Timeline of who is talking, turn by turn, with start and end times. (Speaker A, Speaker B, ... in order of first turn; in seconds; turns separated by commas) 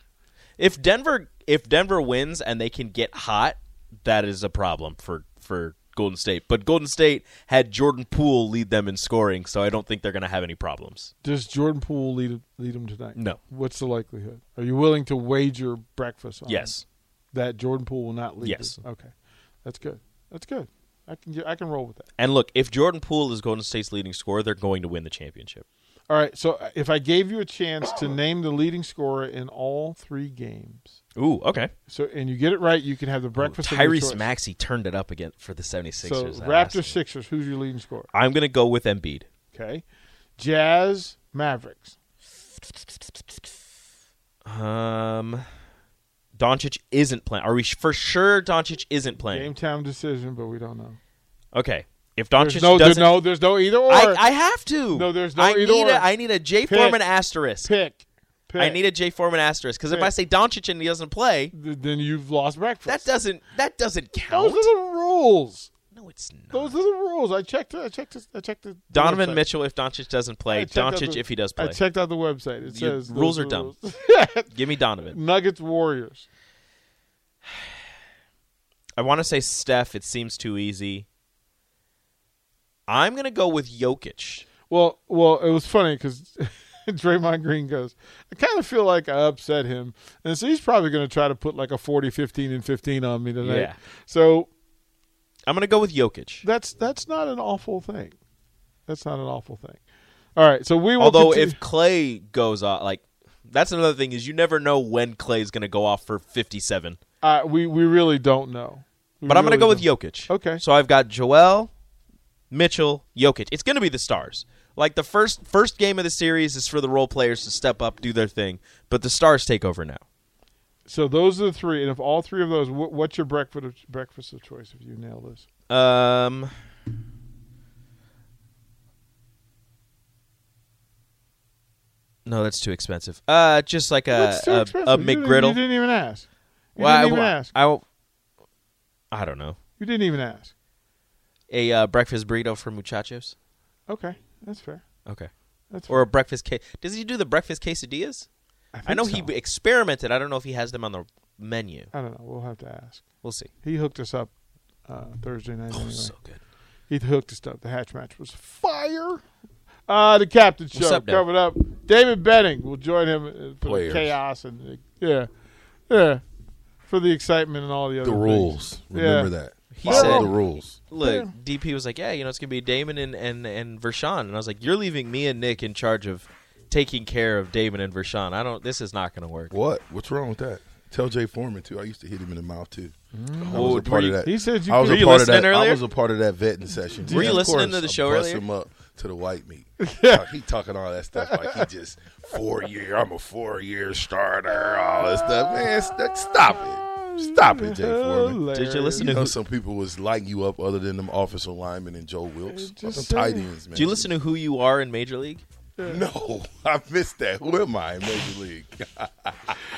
Speaker A: 0.6-11.1, Speaker B: 11.2-16.8, Speaker A: 16.4-16.8, Speaker B: 17.3-19.1, Speaker A: 18.4-18.8, Speaker B: 19.6-22.1, Speaker A: 22.2-25.6, Speaker B: 26.1-31.0, Speaker A: 31.1-31.7, Speaker B: 31.9-34.3, Speaker A: 33.4-36.9, Speaker B: 36.0-38.1, Speaker A: 38.1-39.3, Speaker B: 39.5-39.8, Speaker B: 40.4-42.0, Speaker A: 44.4-45.4, Speaker A: 46.4-49.5, Speaker B: 49.2-51.0, Speaker A: 51.5-53.2, Speaker B: 52.4-54.2, Speaker A: 53.9-57.7, Speaker B: 54.9-56.1, Speaker B: 56.6-57.0, Speaker B: 57.6-58.8, Speaker A: 58.6-61.5, Speaker B: 59.9-60.1, Speaker B: 61.5-63.1, Speaker A: 62.9-64.7, Speaker B: 64.3-65.7, Speaker A: 65.9-66.8, Speaker B: 66.5-69.4, Speaker A: 68.9-71.8, Speaker B: 70.5-74.5, Speaker A: 72.6-73.7, Speaker A: 74.5-75.2, Speaker B: 75.0-76.3, Speaker A: 79.0-81.0, Speaker A: 82.9-84.5, Speaker B: 84.7-94.5, Speaker A: 93.4-93.8, Speaker A: 95.5-96.5, Speaker B: 96.4-98.2, Speaker B: 98.9-99.8, Speaker B: 100.3-101.6, Speaker A: 101.0-107.0, Speaker B: 107.2-110.6, Speaker A: 109.2-111.7, Speaker A: 112.5-120.0, Speaker B: 120.8-125.5, Speaker A: 125.7-126.5, Speaker A: 132.2-135.6, Speaker B: 134.1-137.5, Speaker A: 136.8-137.8, Speaker A: 139.1-139.6, Speaker B: 139.8-140.5, Speaker A: 141.5-143.3, Speaker B: 143.9-144.8, Speaker B: 145.7-146.1, Speaker A: 145.8-148.3, Speaker B: 148.7-149.3, Speaker A: 148.8-151.9, Speaker B: 151.9-153.1, Speaker A: 153.2-153.5, Speaker B: 153.6-154.3, Speaker B: 154.8-156.1, Speaker A: 155.7-156.4, Speaker B: 156.9-159.2, Speaker B: 159.9-165.3, Speaker A: 160.7-161.3, Speaker C: 163.6-164.2, Speaker B: 165.9-166.2, Speaker B: 166.8-170.3, Speaker C: 168.0-170.8, Speaker A: 169.7-170.3, Speaker A: 170.9-179.5, Speaker B: 170.9-171.3, Speaker C: 179.5-198.4, Speaker B: 183.1-185.2, Speaker A: 183.4-185.8, Speaker B: 187.0-187.5, Speaker A: 187.1-188.4, Speaker B: 189.8-190.3, Speaker B: 191.2-191.6, Speaker B: 195.0-195.7, Speaker B: 196.5-199.1, Speaker A: 198.5-199.3, Speaker C: 199.0-204.1, Speaker B: 202.5-203.5, Speaker A: 203.7-205.4, Speaker B: 205.8-206.0, Speaker C: 205.8-209.5